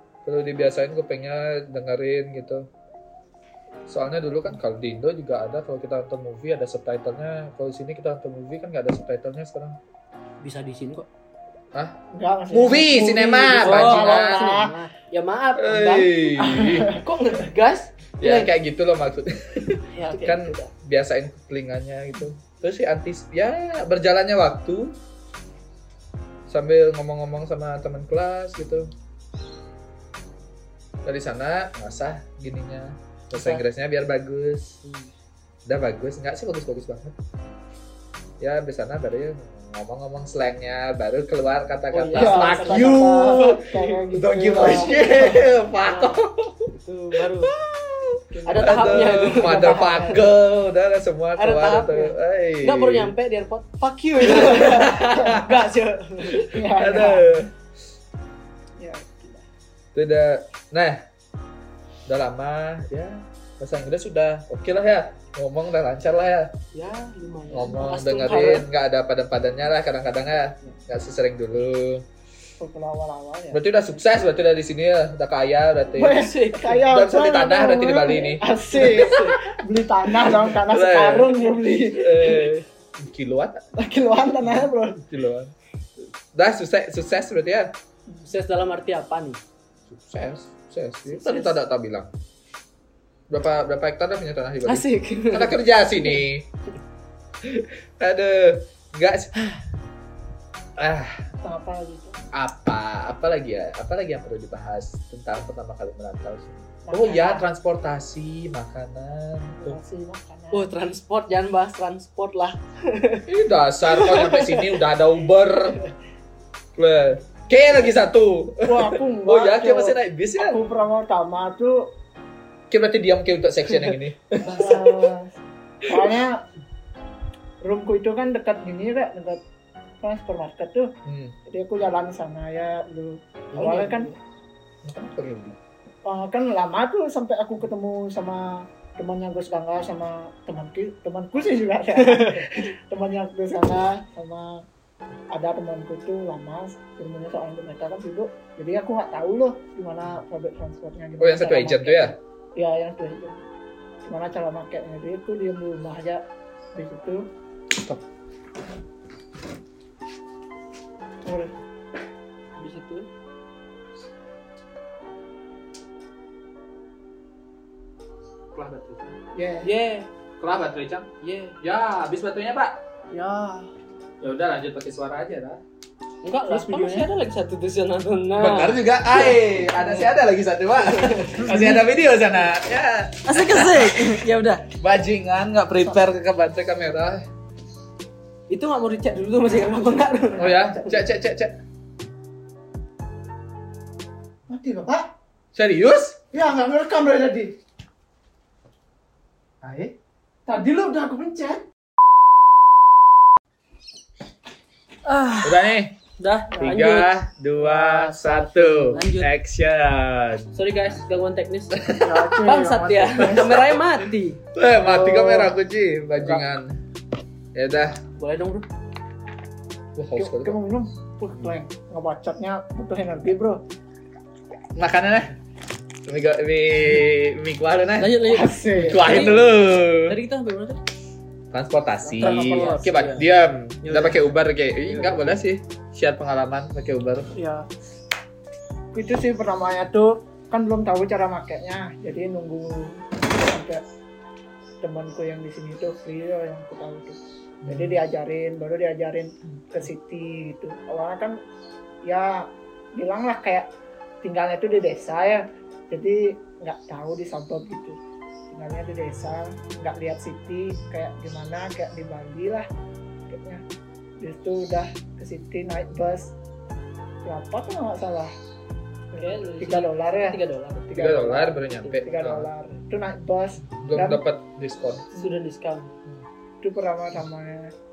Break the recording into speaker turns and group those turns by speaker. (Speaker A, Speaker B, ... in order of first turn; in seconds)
Speaker A: 0.2-2.7, 3.9-9.8, 12.5-14.5, 15.6-16.9, 18.2-24.9, 26.5-28.9, 31.1-34.8, 35.7-37.1, 38.4-46.7, 47.4-53.1, 54.3-55.6, 56.3-57.5, 60.0-61.0, 62.1-66.5, 67.5-72.0, 73.5-76.3, 76.9-79.6, 80.2-83.6, 84.6-85.5, 86.3-87.8, 89.9-92.1, 93.3-96.5, 97.4-99.4, 100.8-101.3, 102.3-109.8, 113.3-115.8, 116.8-120.6, 122.7-124.9, 131.1-131.4, 134.8-135.6, 151.2-152.2, 168.5-169.2, 170.4-171.1, 171.6-172.8, 174.2-175.6, 178.4-184.2, 184.8-187.2, 190.4-191.6, 195.6-196.2, 205.4-206.0, 206.6-210.5, 211.7-212.4, 213.2-213.6, 214.6-216.8, 217.6-218.0, 220.0-220.6, 224.8-225.3, 226.1-230.2, 231.5-237.3, 247.6-248.0, 270.9-272.5, 273.7-275.1
Speaker B: 10.4-11.1, 13.6-16.1, 16.9-18.5, 19.9-20.7, 33.3-33.6, 34.8-35.1, 41.9-43.9, 45.8-47.5, 48.5-50.1, 51.4-56.5, 66.7-68.7, 76.0-76.8, 78.7-79.4, 88.2-89.4, 91.1-91.5, 94.7-95.6, 110.5-113.3, 113.9-114.8, 124.4-125.0, 133.5-134.2, 142.0-142.5, 162.6-163.1, 169.6-170.1, 171.2-171.6, 176.2-180.2, 180.8-181.8, 183.2-184.7, 188.5-190.9, 205.1-209.3, 210.5-211.9, 212.4-214.4, 218.2-218.7, 228.0-230.8, 232.2-233.3, 233.8-234.2, 269.1-271.1, 271.8-272.0, 275.1-276.0
Speaker C: 12.1-14.8, 16.4-17.0, 42.1-45.5, 48.3-50.3, 55.2-55.5, 56.4-57.4, 58.8-59.5, 72.6-73.6, 76.0-82.5, 83.8-85.0, 101.4-102.2, 106.9-107.5, 109.6-110.7, 118.6-122.0, 124.5-126.5, 127.6-129.4, 130.0-130.9, 131.5-134.1, 136.1-144.7, 145.3-153.4, 154.0-157.3, 161.2-161.5, 169.3-169.7, 173.1-173.7, 176.5-177.1, 181.5-181.8, 194.5-195.1, 196.3-197.6, 200.5-201.7, 212.0-213.6, 214.8-215.5, 220.2-223.6, 228.3-229.2, 232.0-232.9, 237.3-237.7, 238.9-243.8, 244.8-251.4, 252.0-253.7, 254.2-258.0, 258.5-262.7, 263.3-263.6, 264.2-266.4, 267.2-268.3, 269.1-274.2, 275.1-275.4, 276.6-277.7